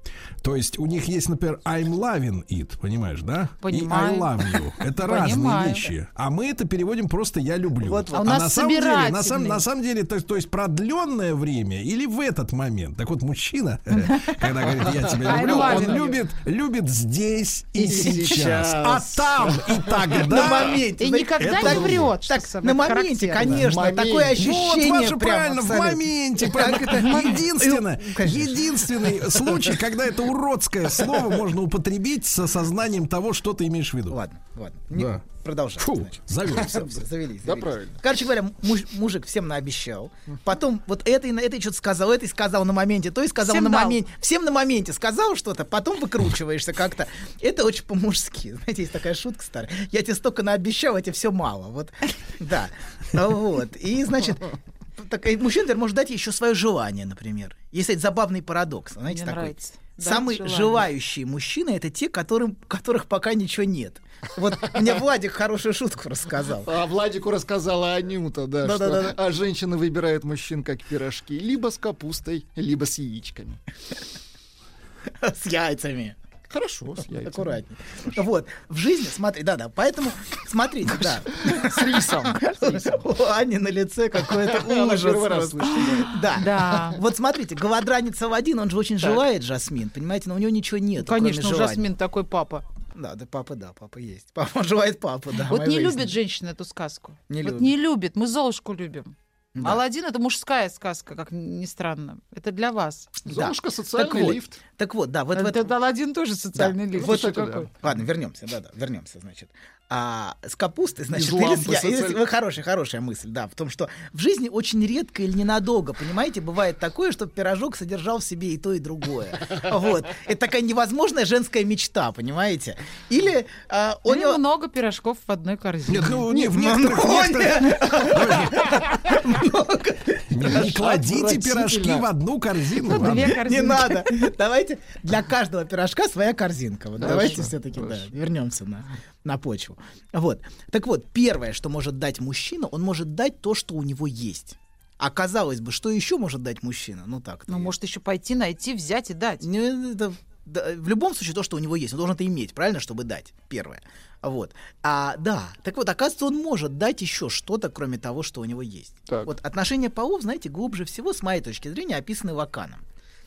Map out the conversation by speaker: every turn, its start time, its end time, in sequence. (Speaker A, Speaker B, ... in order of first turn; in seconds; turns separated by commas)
Speaker A: 0.4-20.8, Speaker B: 3.6-4.4, Speaker B: 4.9-5.9, Speaker C: 7.8-8.4, Speaker B: 8.2-9.6, Speaker B: 13.9-14.4, Speaker D: 14.9-16.1, Speaker B: 15.2-16.1, Speaker D: 17.8-20.1, Speaker C: 20.2-29.2, Speaker B: 21.0-23.6, Speaker A: 21.4-22.1, Speaker D: 23.4-24.4, Speaker A: 24.3-34.2, Speaker C: 34.1-66.7, Speaker A: 34.9-35.2, Speaker A: 35.8-36.9, Speaker D: 37.4-38.0, Speaker B: 43.4-44.0, Speaker B: 59.1-60.9, Speaker D: 66.7-73.6, Speaker C: 68.6-69.2, Speaker C: 75.2-76.2, Speaker D: 76.5-77.6, Speaker C: 77.2-91.9, Speaker D: 81.1-83.0, Speaker D: 84.3-86.1, Speaker B: 85.7-87.0, Speaker B: 91.0-92.6, Speaker C: 92.9-96.2, Speaker B: 95.4-103.1, Speaker C: 97.3-97.7, Speaker C: 99.6-99.8, Speaker C: 103.3-105.7, Speaker D: 103.3-104.6, Speaker B: 105.3-107.7, Speaker C: 106.6-124.4, Speaker D: 106.9-107.7, Speaker D: 111.1-112.2, Speaker B: 124.1-126.2, Speaker A: 125.9-128.7, Speaker C: 126.4-130.9, Speaker A: 130.3-133.4, Speaker D: 130.6-132.1, Speaker B: 132.9-134.1, Speaker C: 133.0-147.7, Speaker D: 137.0-138.1, Speaker B: 147.5-149.4, Speaker C: 149.4-162.8, Speaker D: 159.1-159.3